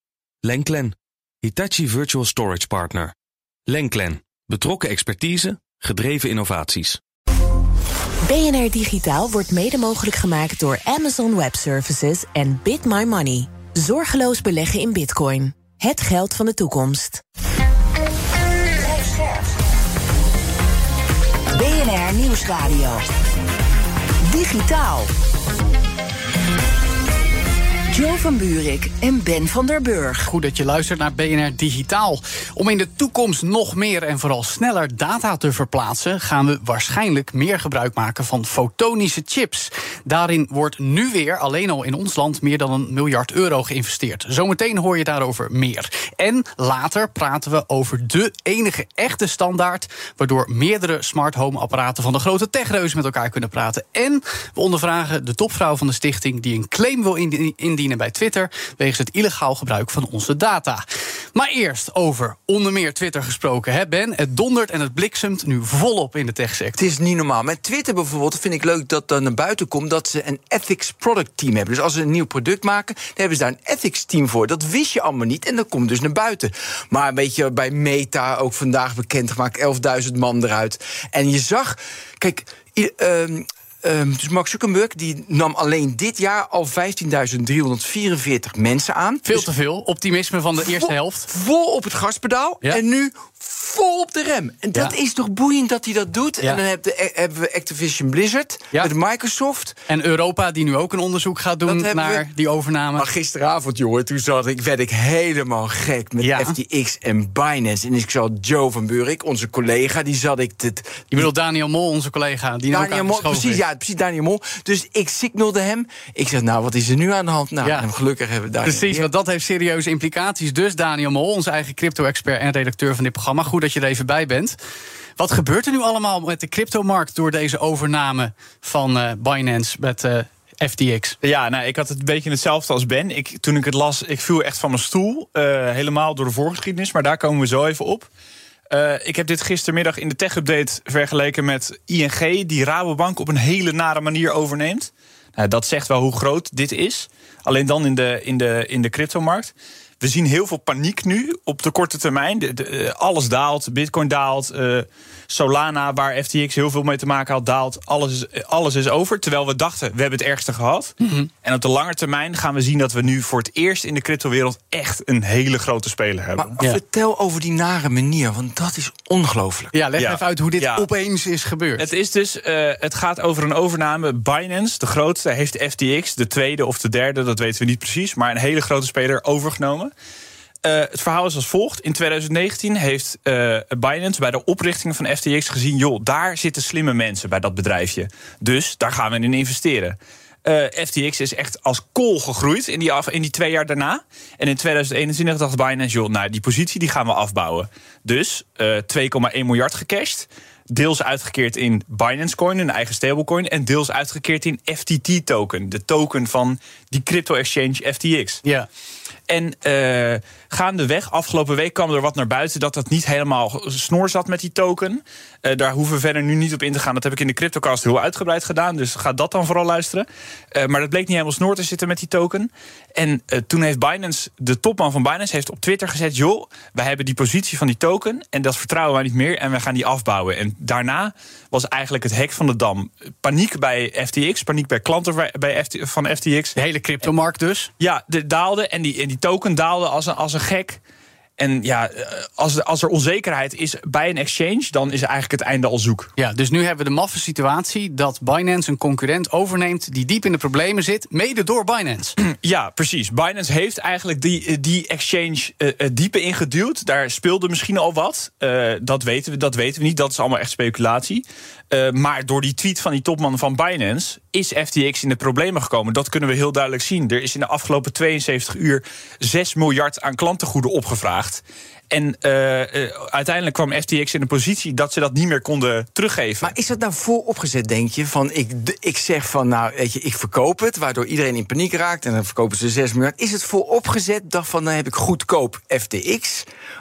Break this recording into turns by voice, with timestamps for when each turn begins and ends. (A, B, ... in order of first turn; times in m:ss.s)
0:00.4-0:03.1 A
0:03.7-0:07.0 A
0:08.3-0:17.2 B
0:18.8-0:19.4 C
0:21.5-0:23.0 C
0:24.2-0:25.1 C
0:27.9-0:30.3 C
0:30.2-1:00.8 D
1:01.3-1:06.8 D
1:06.8-1:29.5 E
1:29.2-1:31.3 D
1:30.6-1:39.8 E
1:39.9-1:43.0 D
1:41.6-1:42.2 E
1:43.0-1:51.2 E
1:46.2-1:46.5 D
1:51.1-1:53.6 D
1:52.7-1:59.1 E
1:58.6-2:04.6 D
2:05.2-2:11.2 D
2:11.2-2:18.1 F
2:18.7-2:46.6 F
2:41.0-2:41.3 D
2:46.4-2:49.7 E
2:49.7-2:51.8 D
2:50.0-2:50.9 F
2:51.8-2:59.9 F
3:00.6-3:28.4 F
3:29.3-3:56.6 F
3:56.6-3:57.7 D
3:57.8-4:00.8 F
4:01.4-4:06.1 F
4:06.2-4:12.2 D
4:12.2-4:36.5 F
4:36.4-4:46.4 E